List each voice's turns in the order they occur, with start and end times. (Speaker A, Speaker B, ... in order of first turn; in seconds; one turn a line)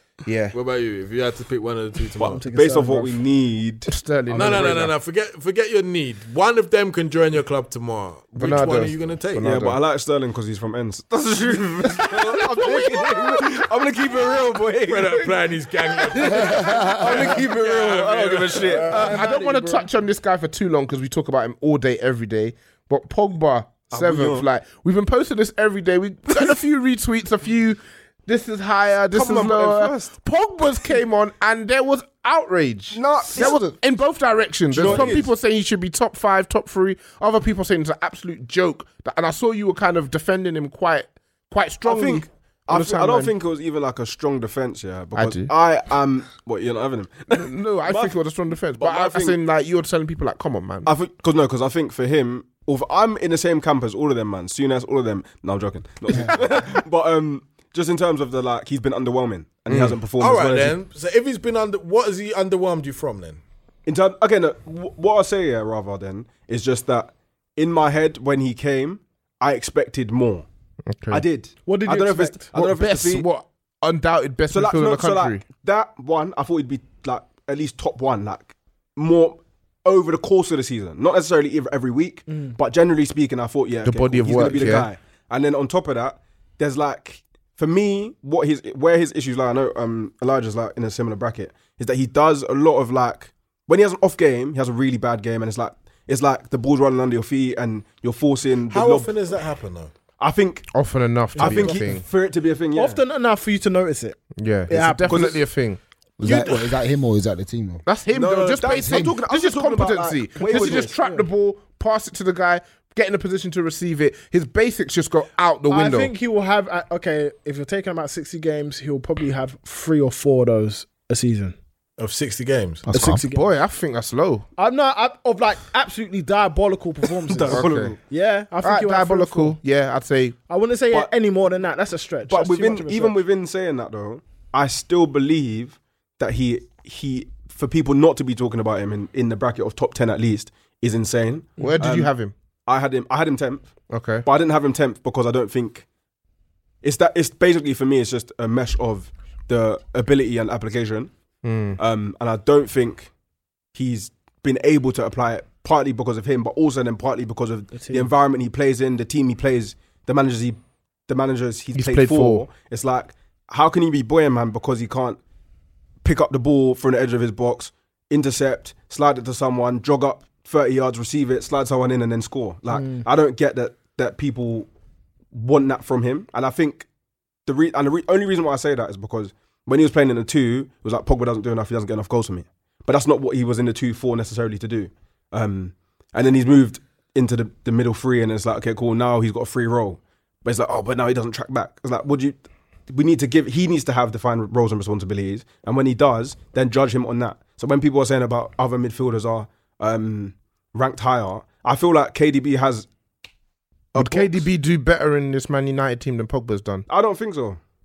Speaker A: 0.2-0.6
Speaker B: 0.5-2.4
Speaker C: 2.2-4.7
Speaker D: 2.2-3.2
Speaker A: 3.9-4.9
Speaker B: 4.3-9.4
Speaker A: 8.4-9.8
Speaker C: 9.4-15.3
Speaker A: 11.9-13.6
Speaker B: 14.9-18.9
Speaker A: 16.0-16.4
Speaker E: 16.4-17.0
Speaker C: 16.9-19.2
Speaker D: 18.7-19.9
Speaker A: 18.9-43.3
Speaker C: 23.9-24.5
Speaker C: 29.1-30.1
Speaker C: 32.9-33.7
Speaker C: 34.7-35.3
Speaker C: 41.9-48.1
Speaker A: 45.1-45.5
Speaker A: 47.3-50.9
Speaker C: 48.8-49.4
Speaker C: 50.9-60.8
Speaker A: 59.7-60.0
Speaker B: 60.2-63.4
Speaker C: 63.9-70.5
Speaker A: 70.9-71.2
Speaker C: 71.1-73.3
Speaker D: 71.7-72.5
Speaker A: 72.5-75.5
Speaker C: 74.5-99.2
Speaker D: 82.3-82.6
Speaker A: 83.8-84.9
Speaker B: 98.7-99.9
Speaker C: 100.2-100.7
Speaker A: 100.7-102.0
Speaker C: 101.3-103.0
Speaker D: 101.4-102.0
Speaker D: 102.7-105.4
Speaker A: 104.4-105.8
Speaker C: 105.1-105.4
Speaker E: 106.2-107.8
Speaker B: 106.2-106.8
Speaker A: 107.8-116.1
Speaker C: 108.1-111.0
Speaker E: 108.7-109.2
Speaker D: 110.4-111.2
Speaker D: 115.7-121.6
Speaker B: 122.0-122.8
Speaker E: 122.9-123.2
Speaker D: 122.9-123.4
Speaker A: 123.2-124.5
Speaker D: 124.6-129.6
Speaker C: 127.3-128.0
Speaker A: 127.5-128.0
Speaker A: 128.6-130.4
Speaker D: 130.5-133.2
Speaker C: 132.3-142.1
Speaker A: 141.6-142.3
Speaker C: 142.7-143.7
Speaker A: 143.9-144.3
Speaker C: 144.2-145.8
Speaker C: 146.8-151.1
Speaker A: 151.4-151.8
Speaker C: 151.8-153.1
Speaker C: 153.7-165.2
Speaker D: 157.7-158.1
Speaker A: 161.7-162.5
Speaker C: 166.0-174.7
Speaker D: 172.7-173.1
Speaker C: 175.3-176.9
Speaker C: 177.5-202.9
Speaker C: 203.9-204.4
Speaker A: 203.9-206.9
Speaker C: 206.9-207.6